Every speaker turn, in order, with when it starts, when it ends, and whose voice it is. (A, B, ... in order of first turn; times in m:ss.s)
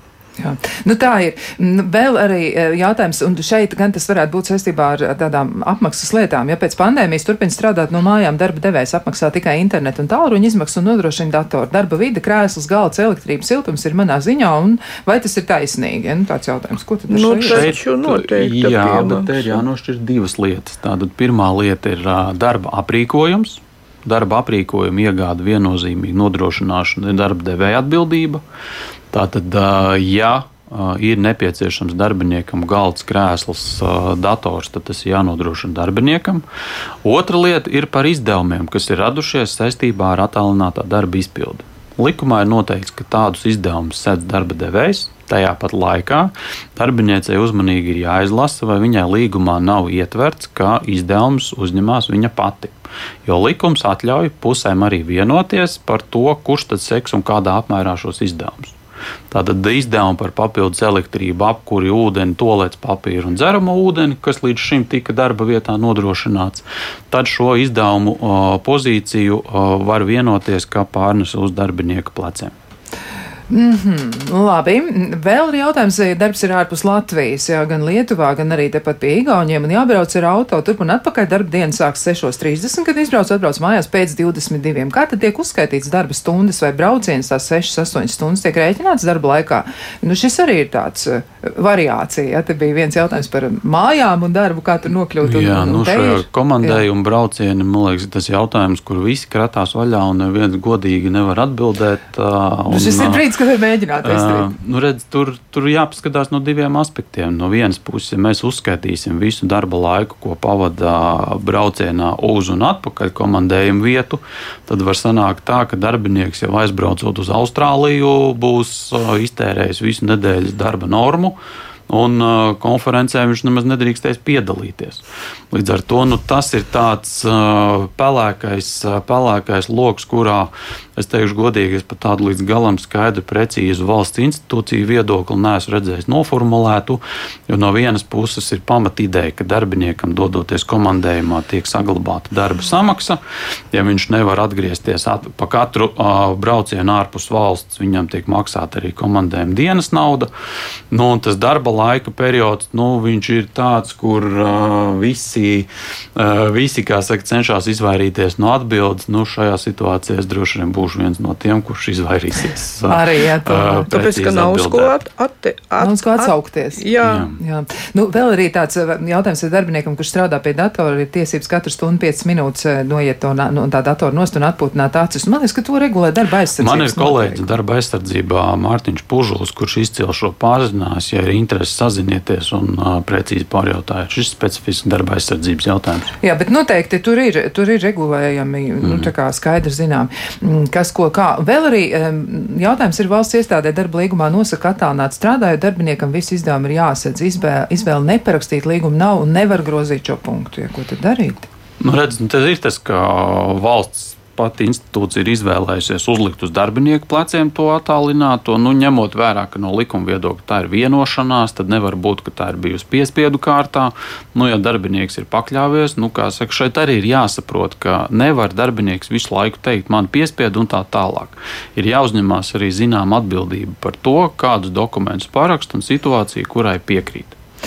0:00.4-0:17.7 A
0:17.1-0:19.6 B
0:17.4-0:28.4 C
0:29.1-0:36.4 C
0:37.0-0:58.8 C
0:59.3-1:12.5 C
1:13.5-1:36.8 A
1:35.2-1:43.2 C
1:42.7-1:44.5 A
1:44.0-2:01.4 C
2:01.9-2:23.2 C
2:23.7-2:30.3 C
2:30.9-2:44.9 C
2:42.8-2:43.9 A
2:43.9-2:47.3 B
2:45.8-2:57.4 A
2:47.0-2:47.4 C
2:56.6-3:06.1 C
3:06.2-3:21.5 A
3:08.8-3:09.1 C
3:21.8-3:47.4 C